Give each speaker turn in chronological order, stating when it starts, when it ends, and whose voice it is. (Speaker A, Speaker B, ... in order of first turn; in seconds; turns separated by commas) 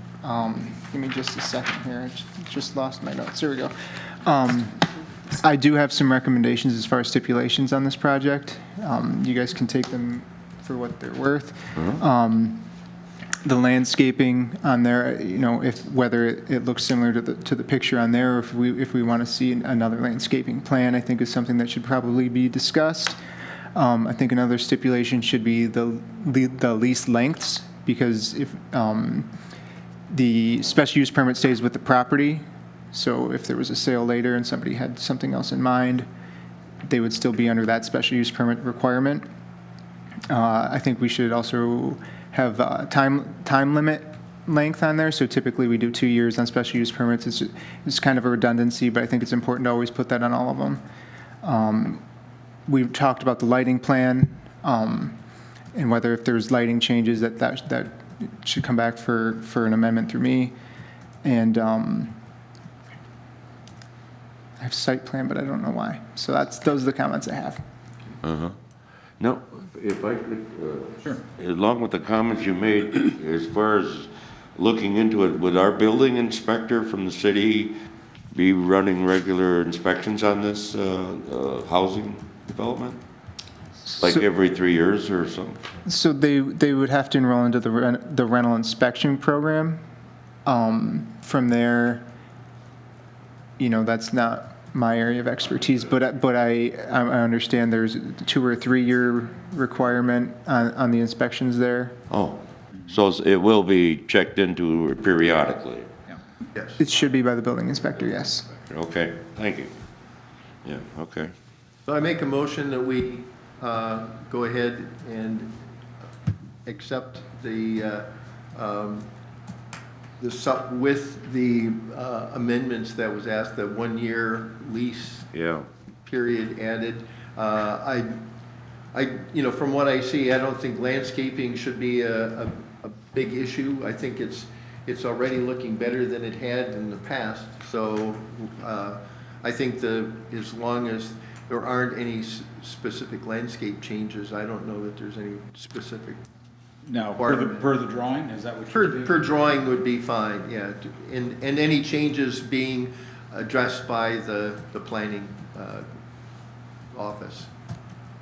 Speaker A: 0.2-12.7, Speaker A: 13.4-23.2, Speaker A: 23.7-29.3, Speaker A: 30.1-36.1, Speaker A: 36.8-39.2, Speaker A: 40.3-50.8, Speaker A: 51.4-52.0, Speaker A: 52.7-55.2, Speaker A: 55.7-60.5, Speaker A: 61.2-62.2, Speaker A: 64.6-67.6, Speaker B: 68.2-68.5, Speaker B: 69.2-77.8, Speaker B: 78.3-83.0, Speaker A: 83.9-84.2, Speaker B: 84.0-85.6, Speaker A: 85.8-89.8, Speaker A: 90.4-92.0, Speaker A: 93.6-102.0, Speaker B: 102.1-105.9, Speaker A: 106.8-108.5, Speaker B: 108.7-109.7, Speaker B: 110.6-111.3, Speaker C: 111.8-115.5, Speaker C: 116.6-119.1, Speaker C: 120.2-125.3, Speaker B: 125.3-125.7, Speaker C: 126.0-128.2, Speaker C: 128.9-146.2, Speaker D: 146.8-149.6, Speaker C: 147.2-147.7, Speaker C: 148.7-155.8, Speaker C: 156.9-157.5